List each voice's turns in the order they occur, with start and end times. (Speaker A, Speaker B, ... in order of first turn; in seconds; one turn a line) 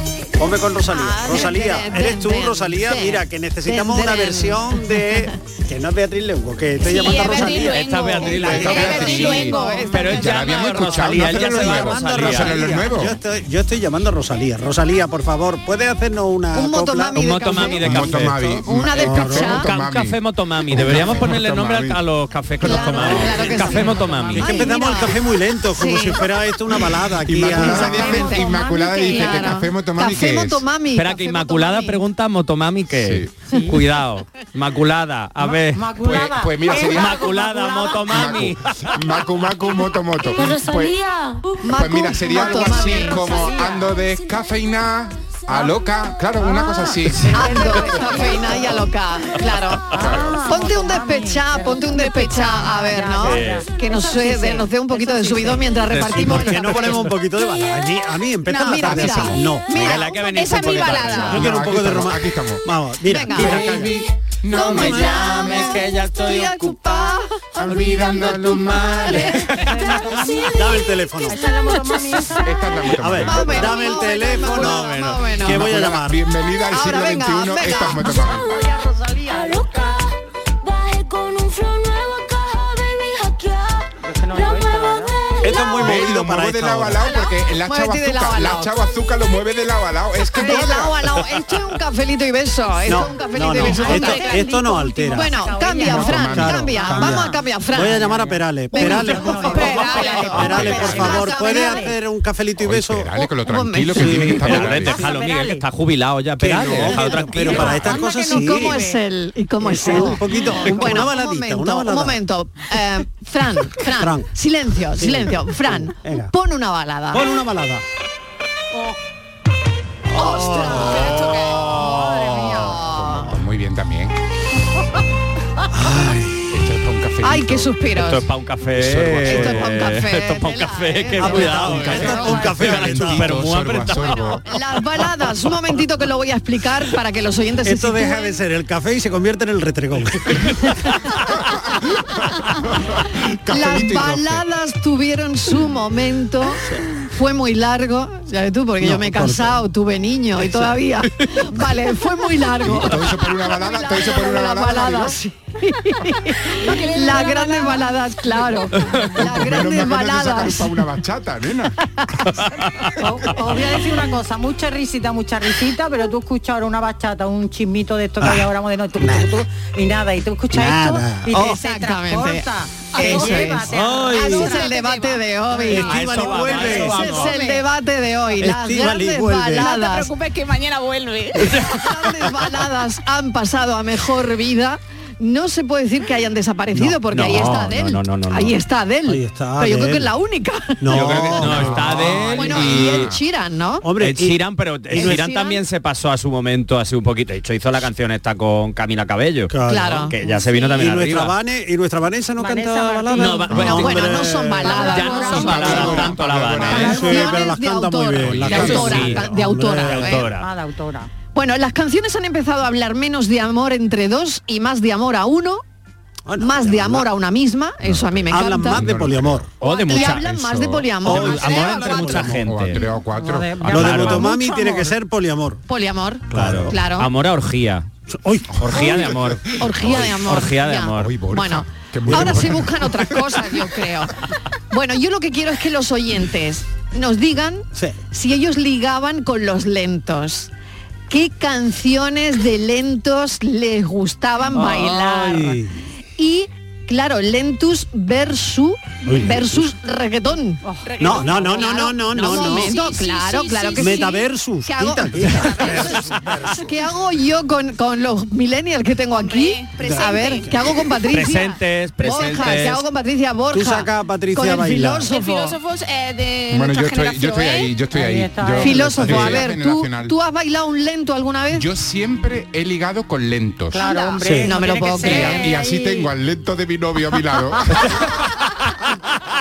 Speaker A: 0.4-8.8
Speaker B: 0.9-5.2
Speaker C: 6.8-10.2
Speaker D: 7.5-12.7
Speaker E: 8.4-13.2
Speaker B: 8.5-11.2
Speaker A: 11.3-19.6
Speaker B: 16.5-18.1
Speaker D: 17.1-18.4
Speaker E: 17.8-22.0
Speaker B: 18.6-19.7
Speaker D: 19.6-24.8
Speaker B: 22.6-25.2
Speaker A: 22.9-28.3
Speaker B: 25.7-26.3
Speaker E: 27.2-30.6
Speaker B: 27.4-32.0
Speaker F: 28.1-29.4
Speaker D: 30.9-35.9
Speaker E: 32.9-33.3
Speaker F: 33.5-33.8
Speaker F: 35.4-38.0
Speaker E: 36.0-37.3
Speaker D: 36.9-38.6
Speaker E: 38.0-41.0
Speaker B: 41.6-43.4
Speaker E: 41.7-47.7
Speaker F: 42.8-43.9
Speaker F: 46.4-48.9
Speaker B: 47.3-57.1
Speaker F: 49.9-55.8
Speaker E: 49.9-50.5
Speaker D: 53.2-53.6
Speaker D: 55.9-57.1
Speaker A: 56.1-59.9
Speaker C: 58.5-59.1
Speaker B: 58.5-60.1
Speaker D: 59.7-61.5
Speaker C: 59.9-61.4
Speaker A: 61.2-64.0
Speaker E: 61.4-62.7
Speaker B: 63.1-63.8
Speaker E: 63.4-63.9
Speaker E: 64.4-65.8
Speaker B: 64.5-68.2
Speaker A: 64.8-65.2
Speaker D: 65.8-66.5
Speaker E: 67.6-69.5
Speaker B: 69.0-69.4
Speaker F: 69.1-72.7
Speaker A: 70.5-71.4
Speaker E: 72.4-73.9
Speaker A: 73.0-76.2
Speaker B: 73.2-75.7
Speaker D: 74.6-75.3
Speaker E: 75.5-78.5
Speaker B: 76.7-78.1
Speaker F: 78.3-80.0
Speaker F: 84.0-85.2
Speaker A: 85.4-87.1
Speaker E: 85.7-91.2
Speaker B: 87.6-88.7
Speaker B: 90.4-94.5
Speaker A: 92.8-95.4
Speaker F: 93.6-96.3
Speaker B: 95.1-98.1
Speaker E: 95.8-97.2
Speaker A: 96.1-103.2
Speaker F: 96.9-102.0
Speaker B: 98.7-101.9
Speaker C: 99.7-100.2
Speaker E: 100.4-101.0
Speaker E: 102.6-105.1
Speaker B: 103.2-104.6
Speaker A: 104.0-104.8
Speaker D: 104.2-107.9
Speaker F: 104.8-105.6
Speaker A: 106.4-108.8
Speaker F: 107.4-109.0
Speaker B: 108.3-117.2
Speaker A: 109.6-112.2
Speaker F: 109.7-111.1
Speaker A: 113.8-114.3
Speaker A: 115.0-116.3
Speaker A: 117.1-117.8
Speaker A: 120.1-121.2
Speaker B: 120.1-123.3
Speaker E: 122.9-124.2
Speaker A: 125.7-126.4
Speaker E: 126.5-127.7
Speaker B: 127.2-128.2
Speaker D: 128.0-134.2
Speaker E: 128.8-129.6
Speaker B: 129.2-132.7
Speaker A: 131.2-133.3
Speaker F: 132.1-132.5
Speaker E: 132.6-134.4
Speaker B: 134.0-138.4
Speaker A: 137.6-140.6
Speaker E: 141.5-144.4
Speaker B: 143.5-160.7
Speaker A: 148.8-149.6
Speaker E: 152.6-155.2
Speaker E: 159.1-161.8
Speaker F: 163.0-174.8
Speaker A: 168.2-169.3
Speaker A: 170.5-171.4
Speaker B: 171.3-180.1
Speaker C: 173.0-173.2
Speaker A: 173.0-174.4
Speaker C: 174.2-175.2
Speaker A: 175.7-177.2
Speaker D: 175.8-177.4
Speaker C: 177.1-177.6
Speaker A: 178.4-179.7
Speaker C: 179.6-181.6
Speaker B: 181.7-193.9
Speaker A: 186.7-187.6
Speaker D: 187.1-188.6
Speaker A: 189.1-190.1
Speaker A: 190.8-192.3
Speaker D: 190.9-193.1
Speaker E: 191.1-193.2
Speaker A: 193.8-195.2
Speaker D: 194.0-199.5
Speaker B: 194.9-195.6
Speaker A: 199.5-204.9
Speaker B: 199.7-200.1
Speaker D: 200.1-201.4
Speaker F: 202.4-203.5
Speaker D: 203.2-204.1
Speaker B: 203.5-206.1
Speaker F: 204.5-206.1
Speaker D: 204.8-207.0
Speaker E: 205.3-207.3
Speaker B: 206.7-210.3
Speaker A: 206.8-210.2
Speaker E: 208.2-209.2
Speaker D: 208.5-209.3
Speaker D: 209.8-210.5
Speaker F: 210.3-211.1
Speaker B: 211.3-215.6
Speaker A: 216.3-217.1
Speaker B: 216.4-218.8
Speaker E: 217.8-221.1
Speaker A: 218.3-219.5
Speaker D: 219.6-220.3
Speaker B: 219.6-222.3
Speaker A: 221.0-222.5
Speaker D: 221.1-222.8
Speaker E: 222.3-223.9
Speaker F: 223.1-223.9
Speaker D: 223.6-224.3
Speaker A: 223.7-225.6
Speaker B: 224.0-224.9
Speaker B: 225.7-227.1
Speaker D: 226.3-227.9
Speaker A: 226.3-226.8
Speaker A: 228.1-229.2
Speaker D: 228.6-231.2
Speaker B: 228.8-234.1
Speaker E: 229.7-230.3
Speaker E: 231.0-233.6
Speaker A: 232.1-232.6
Speaker B: 234.7-240.5
Speaker B: 241.1-245.6
Speaker A: 244.5-245.8
Speaker B: 246.2-250.6
Speaker A: 249.1-249.7
Speaker F: 250.7-251.6
Speaker C: 250.8-254.2
Speaker A: 251.0-252.8
Speaker B: 251.3-265.6
Speaker A: 253.8-256.7
Speaker C: 259.1-260.5
Speaker A: 259.8-260.6
Speaker D: 261.1-262.8
Speaker A: 263.5-265.1
Speaker C: 265.1-267.7
Speaker E: 266.5-270.1
Speaker F: 267.9-269.1
Speaker B: 268.6-271.6
Speaker E: 271.5-273.9
Speaker F: 273.7-276.1
Speaker A: 274.2-274.6
Speaker B: 274.4-275.5
Speaker E: 274.9-278.1